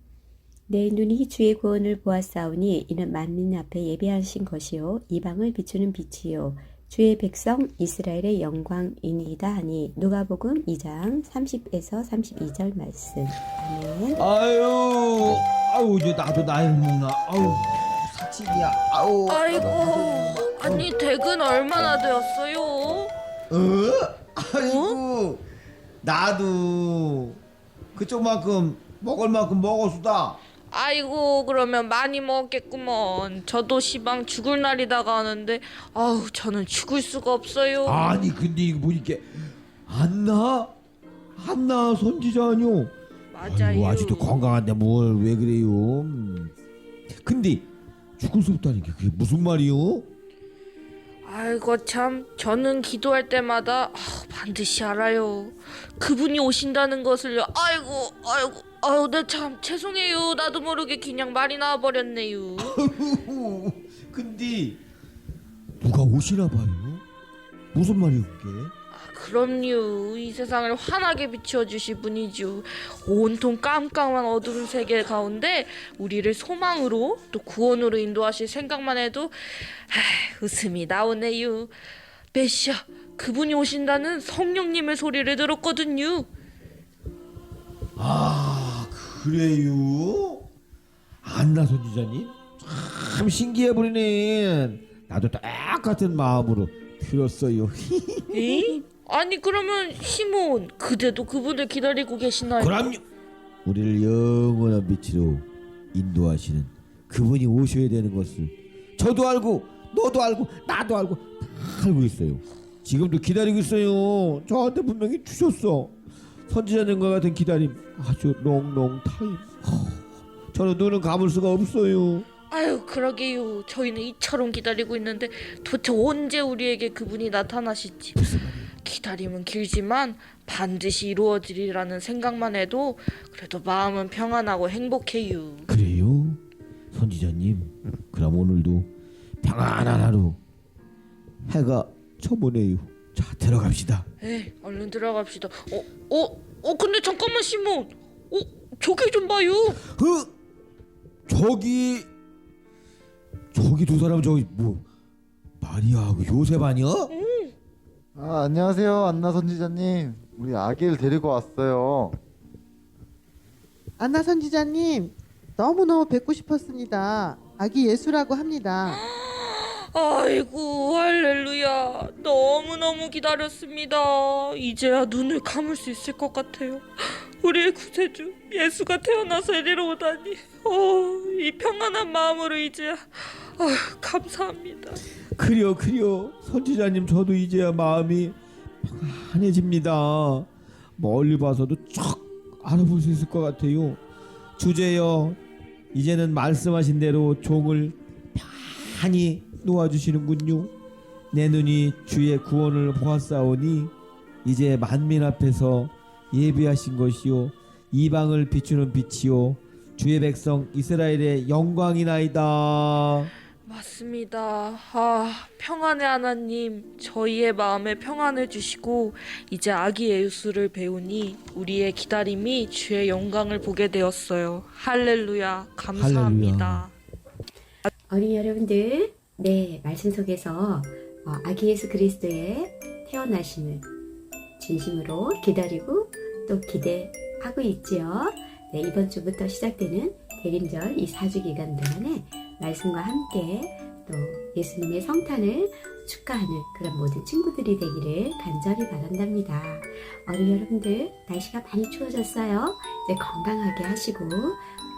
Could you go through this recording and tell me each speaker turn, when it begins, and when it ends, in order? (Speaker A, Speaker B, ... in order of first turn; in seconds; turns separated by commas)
Speaker A: 0.7-14.3, Speaker B: 14.2-20.9, Speaker C: 19.3-23.1, Speaker B: 23.5-25.4, Speaker C: 24.6-25.0, Speaker B: 26.0-27.4, Speaker B: 27.9-30.4, Speaker C: 30.7-38.1, Speaker B: 37.8-40.7, Speaker B: 41.4-46.5, Speaker C: 43.3-44.4, Speaker B: 47.2-47.6, Speaker B: 48.2-50.1, Speaker C: 51.2-62.8, Speaker B: 62.6-64.8, Speaker B: 65.8-67.0, Speaker B: 67.7-68.7, Speaker C: 68.9-81.7, Speaker C: 82.3-86.3, Speaker B: 88.0-90.5, Speaker B: 91.2-98.8, Speaker C: 98.3-102.9, Speaker B: 102.6-103.0, Speaker B: 103.6-115.9, Speaker B: 116.5-120.0, Speaker B: 120.5-122.3, Speaker C: 122.5-128.2, Speaker B: 128.2-128.7, Speaker C: 128.8-135.7, Speaker B: 135.7-136.4, Speaker B: 136.9-138.9, Speaker B: 139.4-140.4, Speaker B: 141.5-144.1, Speaker C: 144.2-149.8, Speaker B: 149.9-150.3, Speaker B: 151.3-152.1, Speaker B: 153.5-154.8, Speaker B: 155.6-157.1, Speaker C: 157.1-157.5, Speaker D: 158.2-162.1, Speaker E: 164.0-169.0, Speaker C: 168.8-185.0, Speaker B: 185.4-194.0, Speaker B: 194.6-195.4, Speaker B: 195.9-200.7, Speaker B: 201.3-203.9, Speaker B: 204.4-213.3, Speaker C: 213.7-226.9, Speaker B: 225.9-226.9, Speaker A: 228.1-233.9, Speaker A: 234.6-254.6